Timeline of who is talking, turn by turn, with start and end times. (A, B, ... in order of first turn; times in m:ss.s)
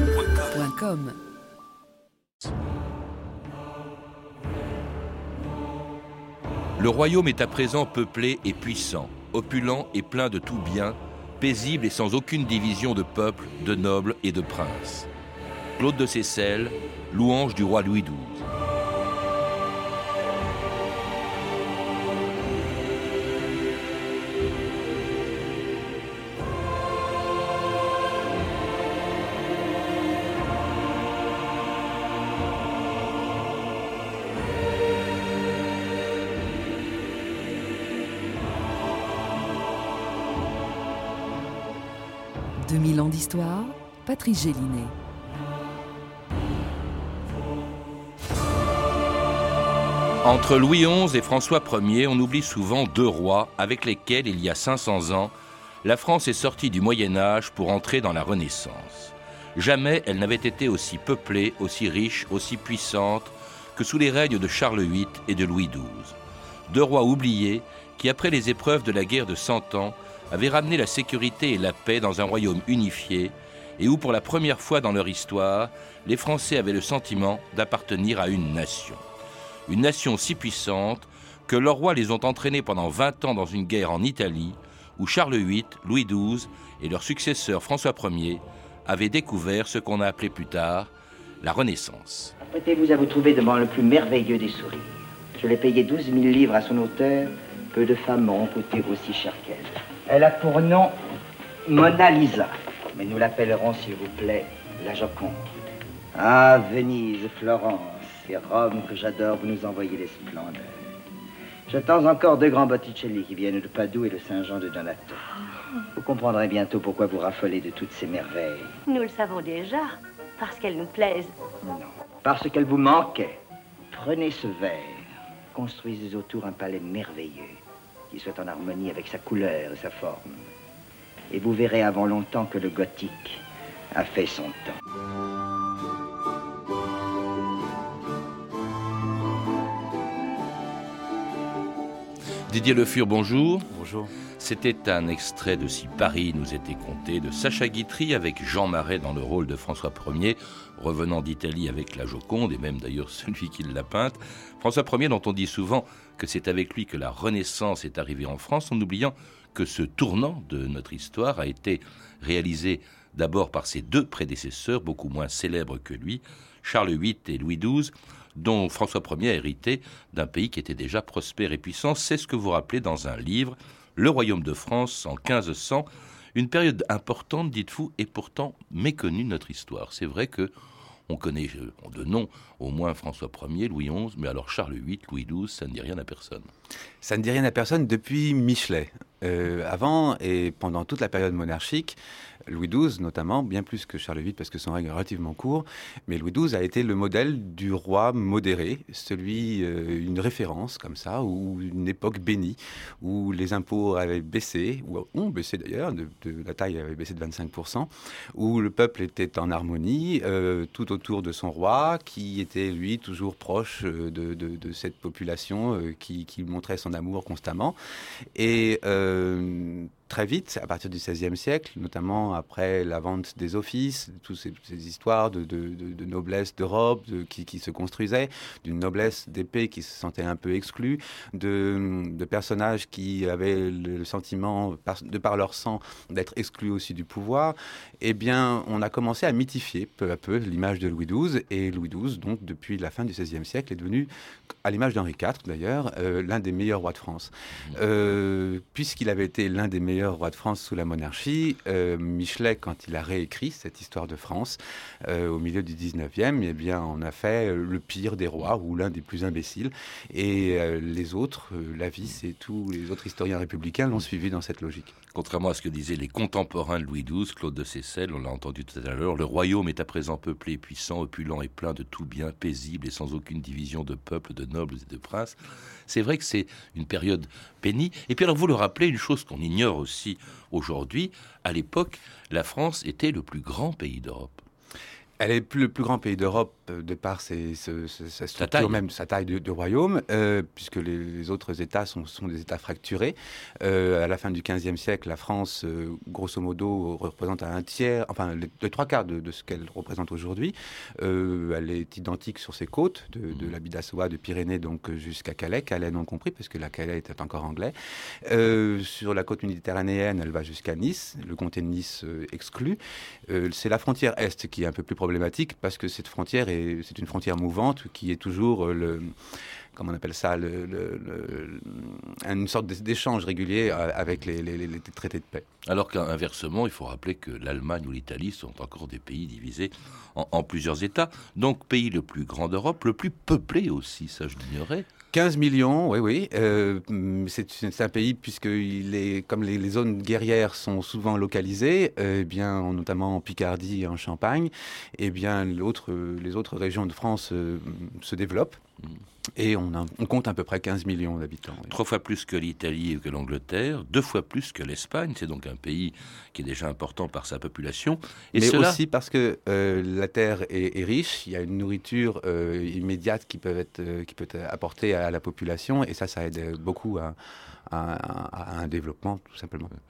0:00.2-0:01.2 A
0:06.8-0:15.1 B
0:15.8-0:18.5 B
0:42.6-0:44.9 A
0:50.2-0:55.3 B
0:55.8-1:06.2 B
1:06.7-1:19.0 B
1:19.7-1:32.3 B
1:32.5-1:41.0 C
1:41.7-1:45.4 C
1:46.1-1:50.8 C
1:51.7-1:55.2 C
1:56.0-1:58.8 C
1:58.9-2:01.3 D
2:01.6-2:03.4 C
2:03.9-2:10.5 C
2:11.3-2:13.4 C
2:13.9-2:14.8 C
2:22.5-2:23.7 B
2:23.7-2:24.1 E
2:24.4-3:00.5 B
3:01.1-3:06.5 B
3:07.0-3:37.8 E
3:38.4-4:04.1 E
4:04.6-4:24.9 E
4:25.1-4:35.4 B
4:35.9-4:44.4 B
4:45.2-5:19.2 E
4:48.4-4:48.8 B
5:19.7-5:25.5 E
5:25.7-5:34.9 B
5:35.1-5:48.6 E
5:49.4-5:51.8 E
5:51.7-5:58.8 B
5:58.4-6:09.7 E